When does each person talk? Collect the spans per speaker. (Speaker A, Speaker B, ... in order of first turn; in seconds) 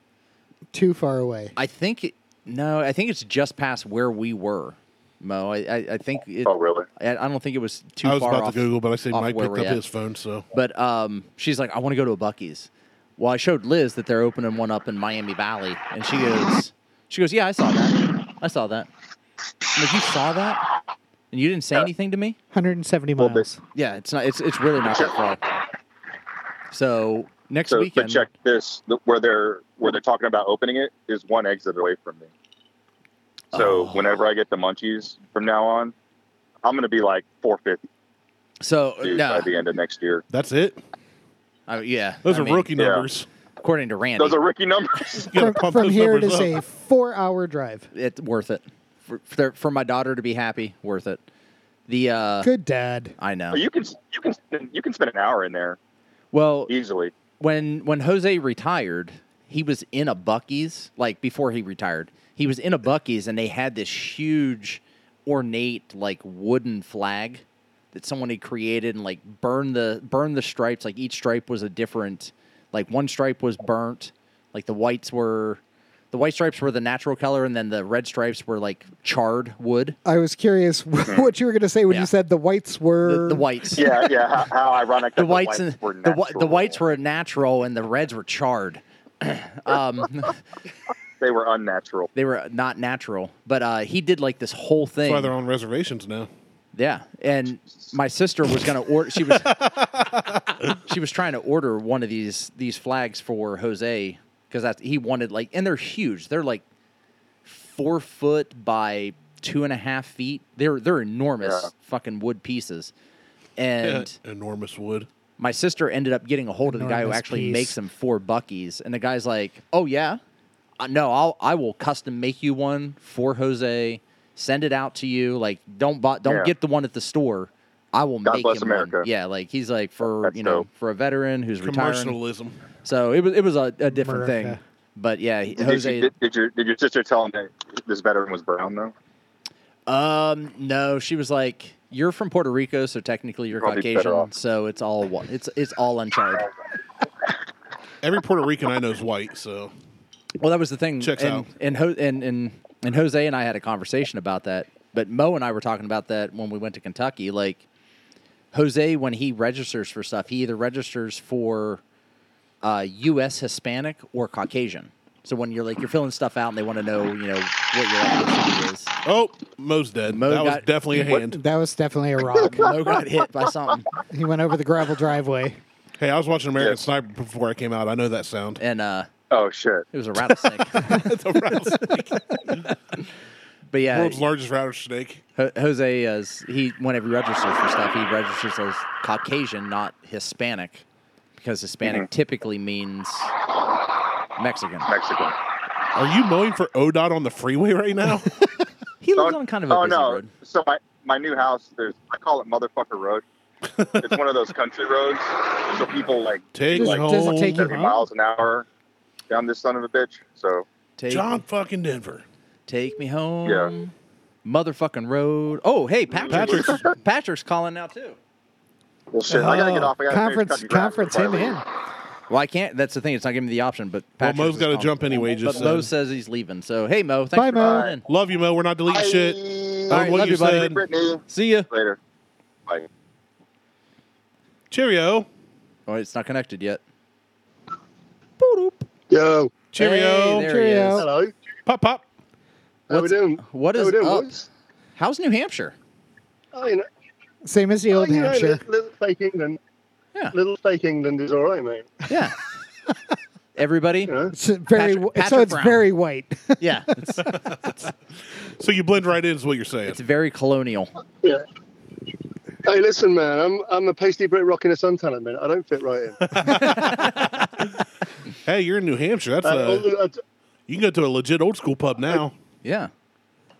Speaker A: 0.7-1.6, 22.5-23.6, 45.3-47.9, 52.4-53.1, 80.0-83.5, 116.7-117.8, 133.9-134.6, 171.0-172.7, 174.1-175.6, 206.7-208.0, 219.3-221.6, 227.3-227.9, 240.4-241.1, 247.4-248.6, 254.3-257.3
Speaker B: 1.6-9.8, 10.5-18.9, 19.8-20.6, 21.3-22.4, 23.8-25.4, 26.7-28.3, 33.5-34.1, 38.6-39.5, 41.7-42.7, 43.6-44.4, 47.9-51.2, 51.9-52.5, 53.2-53.6, 56.3-56.7, 57.4-75.6, 76.1-80.0, 83.0-83.9, 85.2-90.4, 92.2-95.3, 96.7-99.6, 100.8-106.6, 107.5-112.9, 113.6-114.2, 115.4-120.2, 120.8-132.2, 132.8-136.1, 139.9-146.5, 150.4-157.6, 158.5-161.8, 162.6-168.9, 170.1-170.7, 172.3-173.9, 178.6-179.1, 179.9-180.9, 183.7-184.2, 185.4-190.8, 191.4-193.3, 194.4-194.9, 199.0-200.3, 211.0-211.4, 212.7-213.9, 214.4-218.2, 222.3-228.0, 229.9-230.8, 231.3-231.7, 235.9-236.8, 238.4-238.9, 239.8-241.1, 242.9-244.4, 245.0-245.8, 252.1-252.4, 253.6-254.1, 254.7-255.9, 256.6-257.3, 259.9-260.9, 266.6-267.1, 272.6-272.9
Speaker C: 6.5-6.9, 23.2-23.5, 24.8-25.1, 27.7-32.3, 33.5-35.9, 36.6-37.8, 39.0-40.2, 42.8-43.1, 44.2-45.3, 53.5-55.8, 56.7-57.1, 81.0-81.3, 83.8-86.8, 91.2-92.1, 111.4-111.7, 126.2-126.5, 128.2-129.1, 130.2-130.7, 135.6-138.9, 143.6-144.3, 176.6-176.9, 179.3-179.9, 194.9-195.3, 199.2-203.2, 204.0-208.7, 209.3-210.7, 213.4-213.7, 216.1-216.8, 219.1-221.6, 227.6-228.0, 228.9-232.0
Speaker D: 8.0-10.4, 40.3-40.8, 42.2-43.3, 45.2-46.6, 95.0-96.3, 99.3-100.4, 113.8-115.1, 131.6-132.6, 148.0-149.7, 151.0-151.5, 169.1-171.4, 176.0-178.6, 180.8-182.8, 183.9-185.2, 195.9-198.4, 206.5-207.8, 211.1-212.2, 216.3-216.9, 224.2-225.9, 228.1-230.8, 234.7-235.3, 239.7-240.5, 241.7-242.0, 258.6-260.0, 266.3-267.7, 268.4-269.9, 270.7-272.3
Speaker E: 239.1-239.6, 240.9-241.3, 242.9-244.5, 246.5-246.9, 247.9-249.6, 250.3-252.0, 254.1-254.3, 262.6-266.2, 269.4-270.2